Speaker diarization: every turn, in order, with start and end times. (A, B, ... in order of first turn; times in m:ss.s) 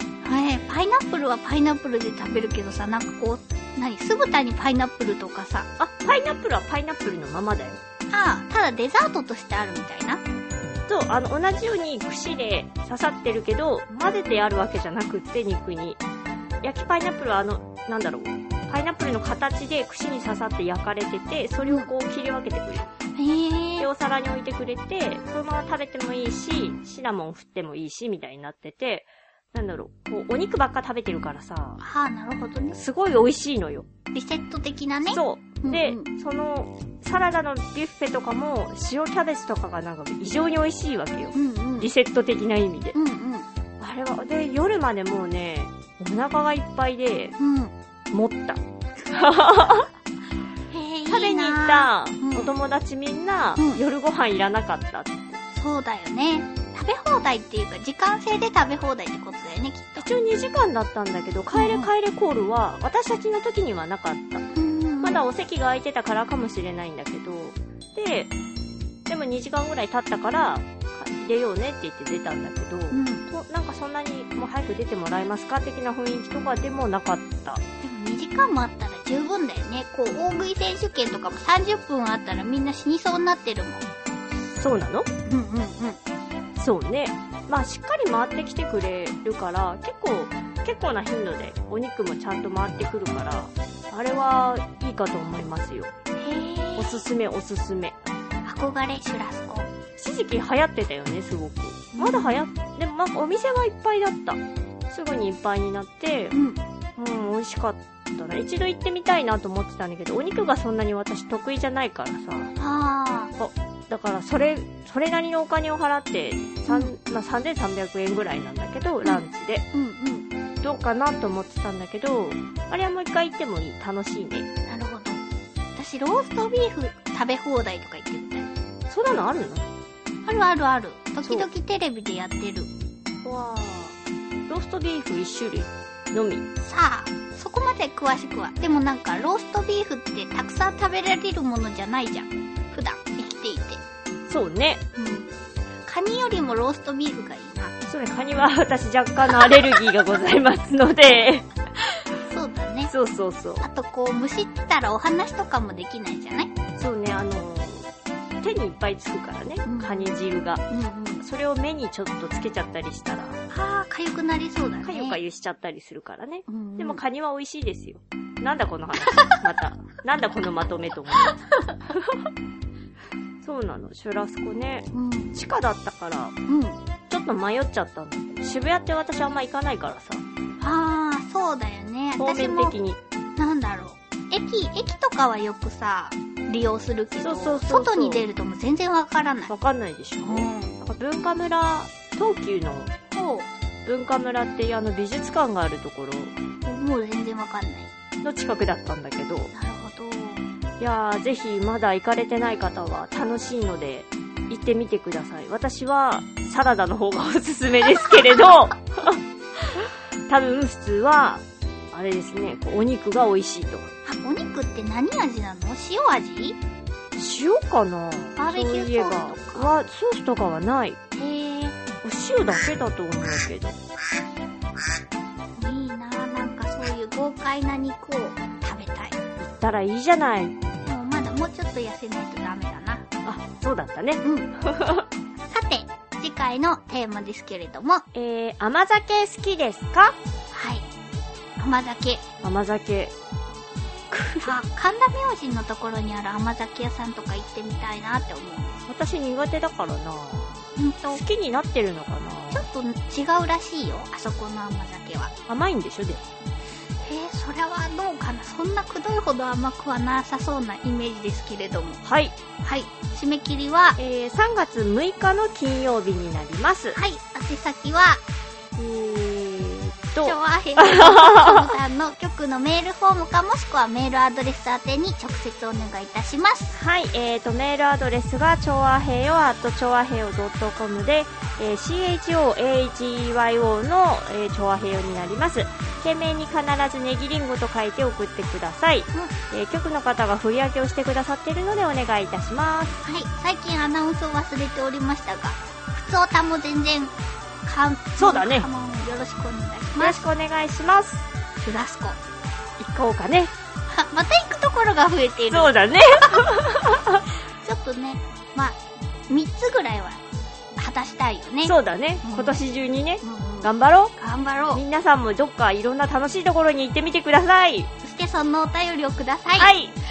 0:00.2-0:05.7 A
0:05.8-0:07.8 B
0:08.1-0:10.2 A
0:10.9-0:16.0 B
0:16.6-0:22.9 B
0:21.6-0:21.9 A
0:23.2-0:23.9 A
0:23.8-0:31.8 B
0:31.8-0:32.8 A
0:32.7-0:33.9 B
0:34.1-0:36.1 A
0:35.1-0:43.0 B
0:41.3-0:41.9 A
0:42.9-0:43.5 A
0:43.8-0:47.4 B
0:47.4-0:47.7 A
0:48.1-0:49.9 B
0:50.7-0:52.5 A
0:51.1-0:55.4 B
0:53.6-0:53.8 A
0:55.5-1:00.1 A
1:00.0-1:04.4 B
1:01.5-1:01.9 A
1:04.6-1:05.2 A
1:05.0-1:08.3 B
1:09.1-1:17.6 B
1:12.9-1:13.2 A
1:17.8-1:23.9 A
1:24.5-1:25.1 B
1:25.3-1:26.0 A
1:26.6-1:35.9 B
1:36.2-1:37.0 A
1:36.8-1:38.0 B
1:38.4-1:39.7 A
1:40.0-1:46.4 B
1:41.9-1:42.4 A
1:46.3-1:46.6 A
1:47.0-1:52.5 B
1:52.6-1:53.3 A
1:53.4-1:59.6 B
1:56.7-1:56.9 A
1:59.0-2:00.3 A
2:00.6-2:04.5 B
2:04.7-2:05.2 A
2:05.8-2:08.5 A
2:08.9-2:09.7 B
2:10.2-2:12.7 A
2:13.2-2:14.0 B
2:14.5-2:16.4 B
2:16.6-2:23.8 A
2:24.3-2:24.8 B
2:25.0-2:25.3 A
2:25.8-2:27.7 A
2:27.9-2:31.5 B
2:32.2-2:32.9 A
2:32.9-2:33.7 B
2:33.6-2:36.5 A
2:36.8-2:37.9 B
2:38.4-2:40.6 B
2:39.6-2:40.2 A
2:40.7-2:41.2 A
2:41.2-2:43.4 B
2:43.5-2:45.2 A
2:44.8-2:51.4 B
2:46.5-2:47.0 A
2:51.9-2:52.3 B
2:53.4-2:56.4 B
2:54.9-2:55.3 A
2:56.5-2:56.8 A
2:57.1-3:00.2 B
3:00.6-3:02.8 A
3:02.2-3:03.0 B
3:03.4-3:09.5 A
3:07.2-3:08.3 B
3:09.5-3:12.9 B
3:10.2-3:10.8 A
3:13.1-3:13.5 A
3:13.9-3:16.3 B
3:16.6-3:17.9 A
3:18.2-3:19.5 B
3:19.5-3:20.4 A
3:20.8-3:29.2 B
3:30.3-3:33.9 B
3:34.0-3:36.6 A
3:37.2-3:41.0 B
3:38.4-3:39.7 A
3:41.2-3:41.8 A
3:42.0-3:43.8 B
3:45.6-3:49.2 A
3:49.4-3:50.6 B
3:50.8-3:53.0 A
3:53.2-3:55.1 B
3:54.2-3:54.5 A
3:55.5-3:58.0 A
3:58.1-4:00.2 B
4:00.5-4:00.9 A
4:01.6-4:02.2 A
4:02.4-4:03.1 B
4:04.1-4:04.6 B
4:04.4-4:08.9 A
4:08.9-4:12.7 B
4:10.8-4:11.2 A
4:12.5-4:15.3 A
4:15.5-4:16.2 B
4:17.0-4:22.0 A
4:22.0-4:22.4 B
4:22.6-4:24.0 A
4:24.0-4:27.0 B
4:27.0-4:28.2 A
4:28.8-4:31.7 B
4:30.2-4:36.8 A
4:36.8-4:53.0 B
4:53.0-5:00.3 A
4:58.2-4:58.7 B
5:00.0-5:01.3 B
5:01.6-5:02.2 A
5:02.8-5:03.5 B
5:03.9-5:06.4 A
5:05.5-5:07.2 B
5:07.6-5:08.8 A
5:09.3-5:10.2 A
5:10.8-5:12.6 A
5:11.6-5:14.2 B
5:13.2-5:14.8 A
5:14.7-5:17.9 B
5:18.0-5:19.7 A
5:19.6-5:20.0 B